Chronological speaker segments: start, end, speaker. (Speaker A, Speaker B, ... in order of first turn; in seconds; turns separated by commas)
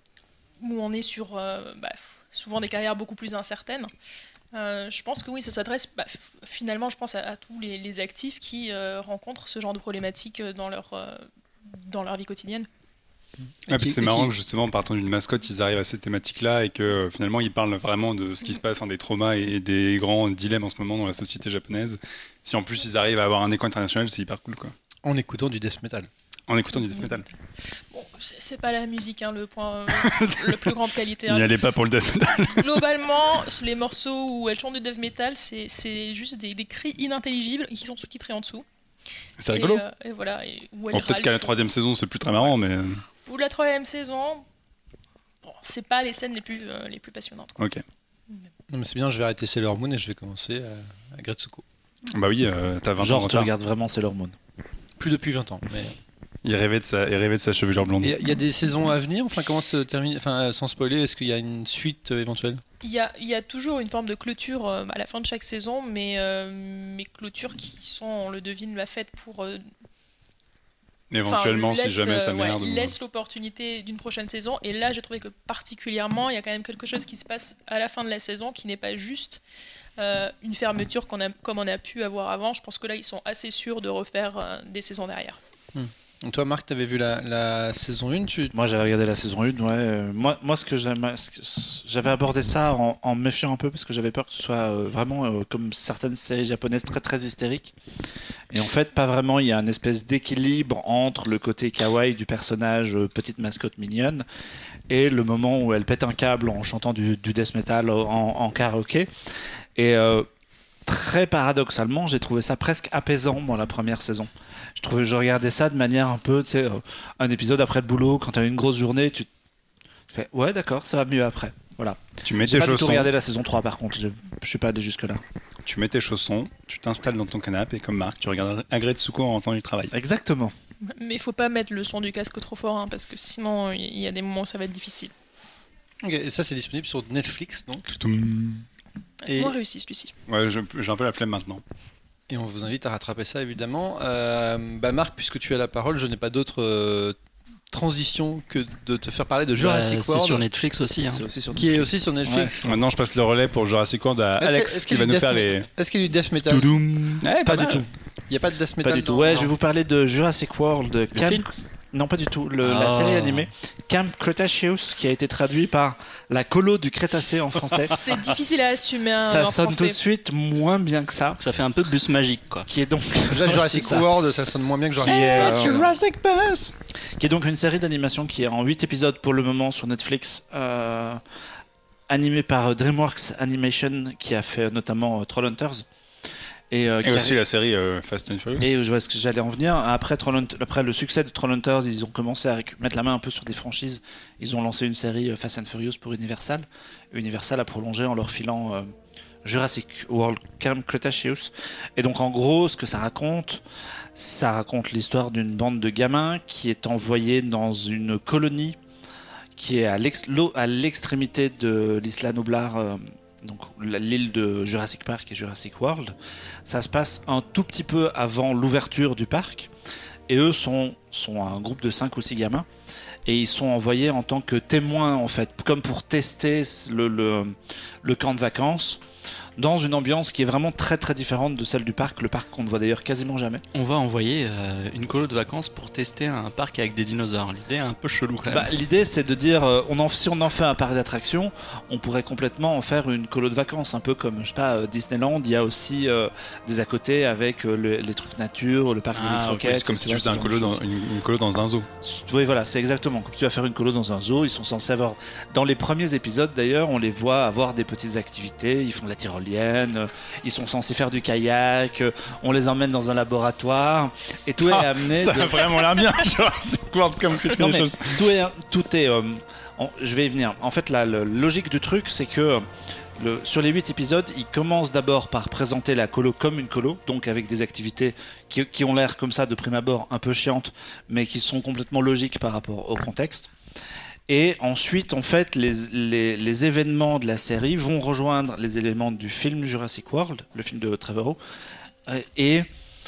Speaker A: 0.6-3.9, Speaker A: 4.5-12.7, Speaker B: 13.7-14.3, Speaker C: 13.7-24.7, Speaker B: 25.0-26.1, Speaker C: 26.5-27.3, Speaker A: 27.9-31.6, Speaker C: 29.9-32.8, Speaker A: 32.4-38.6, Speaker C: 39.4-39.8, Speaker A: 39.5-41.6, Speaker C: 40.9-43.0, Speaker A: 43.2-44.4, Speaker A: 45.4-47.6, Speaker B: 48.7-51.6, Speaker C: 52.1-53.5, Speaker D: 53.0-54.3, Speaker B: 55.0-55.8, Speaker C: 56.4-58.1, Speaker B: 58.0-62.6, Speaker A: 62.8-69.6, Speaker C: 71.1-72.9, Speaker A: 71.2-79.4, Speaker A: 80.0-85.4, Speaker B: 85.7-88.5, Speaker D: 88.5-97.7, Speaker D: 98.5-104.2, Speaker D: 104.9-109.1, Speaker D: 109.8-110.3, Speaker D: 110.8-119.3, Speaker D: 120.1-125.2, Speaker C: 122.2-123.1, Speaker C: 125.6-129.9, Speaker D: 129.9-130.5, Speaker A: 130.8-135.1, Speaker B: 136.0-137.8, Speaker C: 137.9-138.6, Speaker A: 139.2-140.1, Speaker B: 139.3-139.5, Speaker C: 140.3-141.6, Speaker B: 142.3-147.2, Speaker B: 147.7-150.4, Speaker E: 149.6-151.2, Speaker D: 151.1-151.9, Speaker B: 151.5-152.8, Speaker C: 152.3-155.7, Speaker B: 154.4-156.7, Speaker D: 156.5-157.8, Speaker C: 157.2-157.8, Speaker B: 158.3-159.4, Speaker D: 158.8-168.4, Speaker E: 159.2-159.5, Speaker E: 161.1-161.4, Speaker E: 162.6-163.5, Speaker A: 167.9-170.0, Speaker D: 169.2-171.4, Speaker E: 171.4-172.7, Speaker D: 172.7-174.1, Speaker B: 173.3-175.9, Speaker D: 175.0-181.2, Speaker D: 182.1-185.8, Speaker D: 186.7-187.4, Speaker C: 187.0-188.7, Speaker D: 188.6-198.9, Speaker D: 199.4-203.6, Speaker D: 204.2-208.8, Speaker D: 209.6-216.1, Speaker D: 216.7-219.7, Speaker D: 220.3-222.7, Speaker D: 223.2-229.0, Speaker D: 229.6-233.6, Speaker E: 233.7-238.7, Speaker D: 238.5-250.8, Speaker C: 249.1-251.9, Speaker D: 252.0-265.7, Speaker C: 264.6-268.2, Speaker D: 267.4-283.5, Speaker D: 284.3-291.4, Speaker D: 292.1-292.7